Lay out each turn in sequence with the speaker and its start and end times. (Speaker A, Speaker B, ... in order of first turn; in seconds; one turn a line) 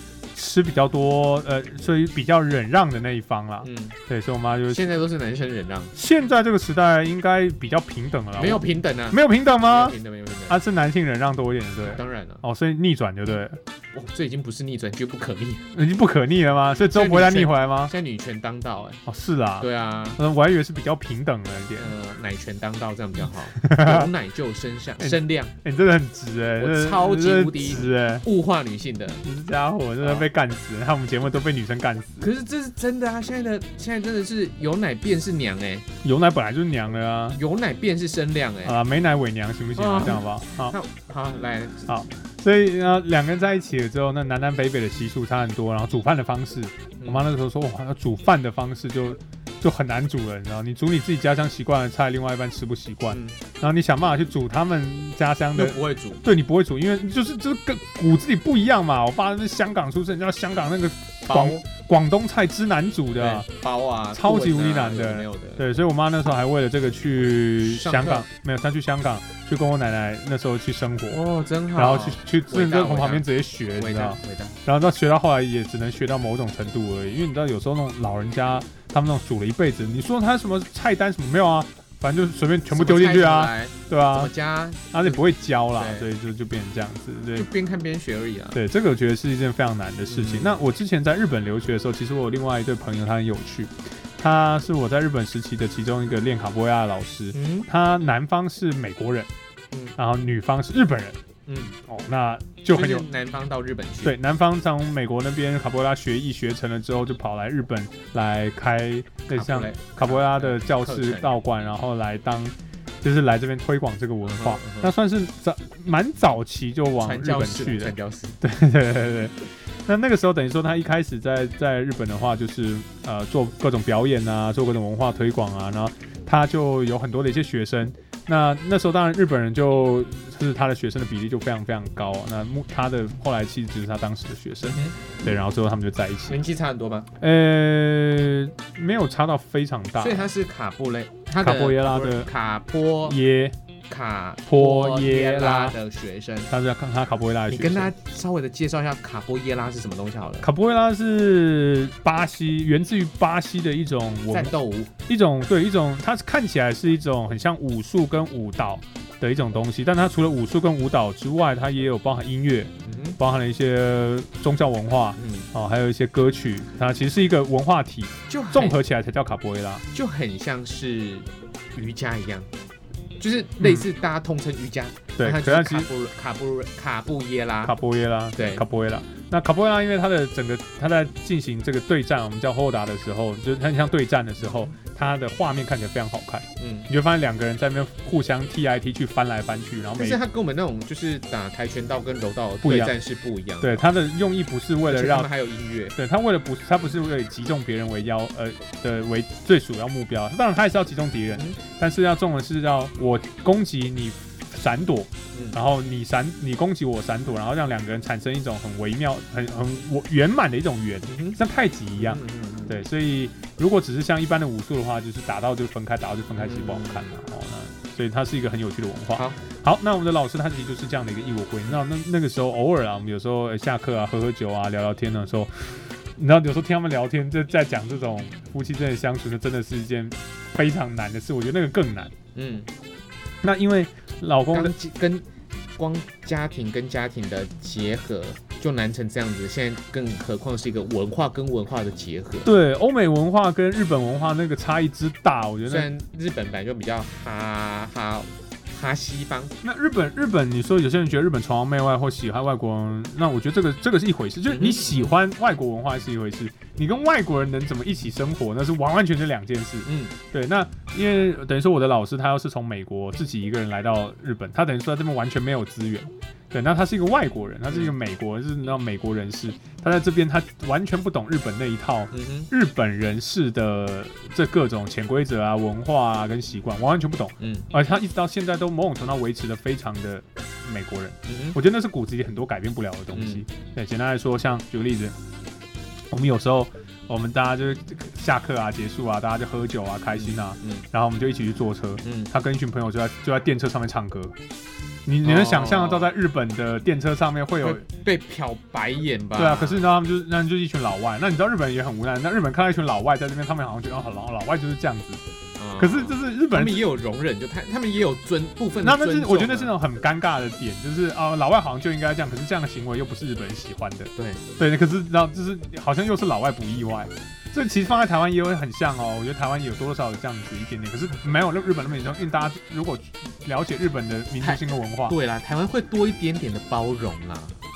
Speaker A: 0.3-4.9
Speaker B: 3.6-4.0
Speaker B: 4.7-5.9
Speaker A: 5.9-10.0
Speaker B: 8.4-10.6
Speaker A: 10.5-13.6
Speaker B: 11.8-12.4
Speaker B: 13.9-15.7
Speaker A: 15.7-17.9
Speaker B: 16.8-19.0
Speaker A: 19.1-21.9
Speaker B: 19.6-20.2
Speaker B: 21.8-25.5
Speaker A: 23.5-24.1
Speaker A: 25.0-28.2
Speaker B: 26.6-29.2
Speaker A: 29.2-32.3
Speaker B: 30.0-30.2
Speaker B: 32.2-35.9
Speaker A: 36.0-37.4
Speaker B: 37.3-38.8
Speaker A: 38.6-40.8
Speaker B: 39.8-41.9
Speaker A: 41.9-63.5
Speaker B: 47.0-47.3
Speaker B: 53.1-53.4
Speaker B: 55.5-56.2
Speaker B: 61.3-61.6
Speaker B: 63.2-65.7
Speaker A: 64.1-71.2
Speaker B: 67.6-68.2
Speaker B: 71.1-74.6
Speaker A: 71.8-84.3
Speaker B: 82.7-85.2
Speaker A: 84.9-87.5
Speaker B: 85.8-86.1
Speaker B: 87.3-88.6
Speaker A: 88.5-99.3
Speaker B: 90.1-90.6
Speaker B: 97.3-97.7
Speaker A: 100.0-101.2
Speaker B: 101.5-101.8
Speaker A: 101.8-103.0
Speaker B: 102.7-104.1
Speaker A: 104.0-136.4
Speaker B: 109.3-111.4
Speaker B: 114.2-114.9
Speaker B: 117.0-118.4
Speaker B: 134.6-135.1
Speaker B: 136.3-137.1
Speaker A: 137.2-140.3
Speaker B: 140.0-143.2
Speaker A: 141.4-142.3
Speaker A: 143.1-143.6
Speaker B: 143.9-146.5
Speaker A: 144.5-145.8
Speaker A: 146.5-147.9
Speaker B: 147.5-150.5
Speaker A: 150.4-154.5
Speaker B: 154.3-154.9
Speaker A: 155.1-169.8
Speaker B: 162.9-163.2
Speaker B: 165.2-165.5
Speaker B: 168.3-168.8
Speaker B: 169.9-172.5
Speaker B: 173.2-177.8
Speaker A: 173.6-173.9
Speaker A: 175.2-175.9
Speaker A: 177.6-190.2
Speaker B: 178.4-178.6
Speaker B: 184.4-184.8
Speaker B: 186.6-186.9
Speaker B: 190.0-193.9
Speaker A: 192.6-192.9
Speaker A: 193.6-195.3
Speaker B: 194.9-196.0
Speaker A: 196.0-232.1
Speaker B: 201.3-201.6
Speaker B: 211.1-211.4
Speaker B: 212.0-212.8
Speaker B: 216.4-217.1
Speaker B: 232.3-232.7
Speaker A: 233.4-234.7
Speaker B: 234.5-235.2
Speaker B: 235.8-242.5
Speaker A: 242.4-245.9
Speaker B: 245.7-249.5
Speaker A: 249.6-285.1
Speaker B: 254.5-255.1
Speaker B: 259.9-260.1
Speaker B: 272.1-272.5
Speaker B: 277.4-277.7
Speaker B: 281.3-281.6
Speaker B: 283.1-283.4
Speaker A: 286.1-294.4
Speaker B: 290.1-290.9
Speaker B: 292.0-292.3
Speaker A: 295.1-297.8
Speaker B: 295.2-296.1
Speaker B: 297.6-299.9
Speaker A: 299.4-305.2
Speaker B: 305.6-309.7
Speaker A: 305.8-306.8
Speaker A: 308.8-325.1
Speaker B: 314.1-314.4
Speaker B: 324.4-327.6